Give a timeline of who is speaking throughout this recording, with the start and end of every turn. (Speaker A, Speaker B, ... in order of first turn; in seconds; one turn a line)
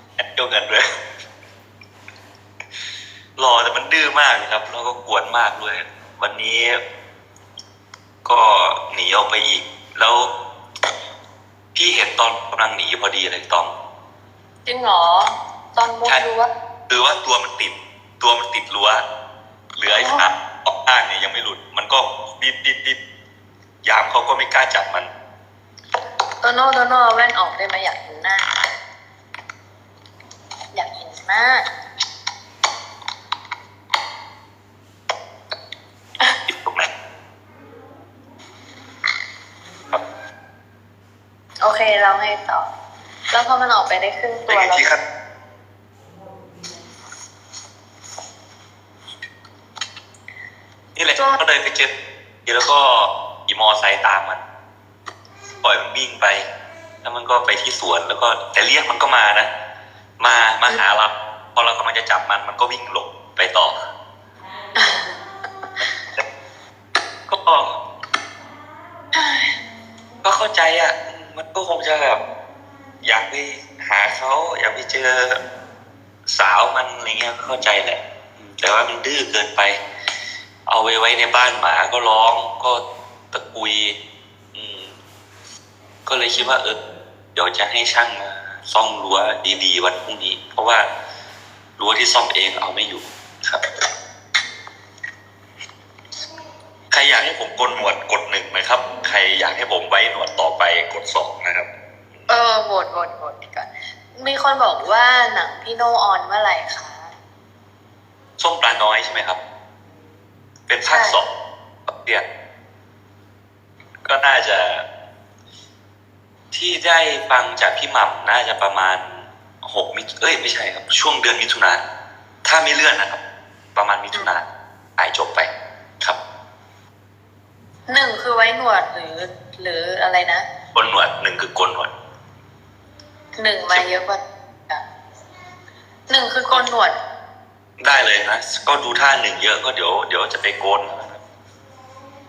Speaker A: 0.2-0.8
Speaker A: 3.4-6.8
Speaker A: 8.2-10.3
Speaker A: 11.8-13.7
Speaker B: 14.7-16.5
Speaker A: 16.9-19.0
Speaker A: 19.8-23.0
Speaker B: 19.9-20.3
Speaker A: 23.8-25.1
Speaker B: 26.4-28.6
Speaker B: 30.7-31.7
Speaker A: 36.5-36.9
Speaker B: 41.6-42.7
Speaker B: 43.3-44.9
Speaker A: 44.5-45.0
Speaker A: 51.0-51.9
Speaker A: 52.5-54.4
Speaker A: 55.6-56.5
Speaker A: 57.0-59.5
Speaker A: 60.2-63.8
Speaker B: 64.8-65.1
Speaker A: 67.3-67.8
Speaker B: 69.1-69.6
Speaker A: 70.2-72.2
Speaker A: 73.0-75.4
Speaker A: 76.3-79.8
Speaker A: 80.7-82.8
Speaker A: 83.3-84.0
Speaker A: 84.5-85.0
Speaker A: 86.1-86.8
Speaker A: 87.3-90.9
Speaker A: 91.8-93.6
Speaker A: 96.9-101.7
Speaker B: 102.3-107.1
Speaker A: 108.4-109.4
Speaker A: 110.7-111.3
Speaker B: 110.9-111.2
Speaker A: 111.9-112.2
Speaker A: 114.0-114.8
Speaker A: 116.5-121.8
Speaker A: 122.4-123.2
Speaker A: 123.8-124.5
Speaker A: 125.0-125.5
Speaker B: 127.9-130.4
Speaker A: 130.7-131.9
Speaker B: 133.4-134.8
Speaker B: 136.1-137.0
Speaker A: 137.8-141.2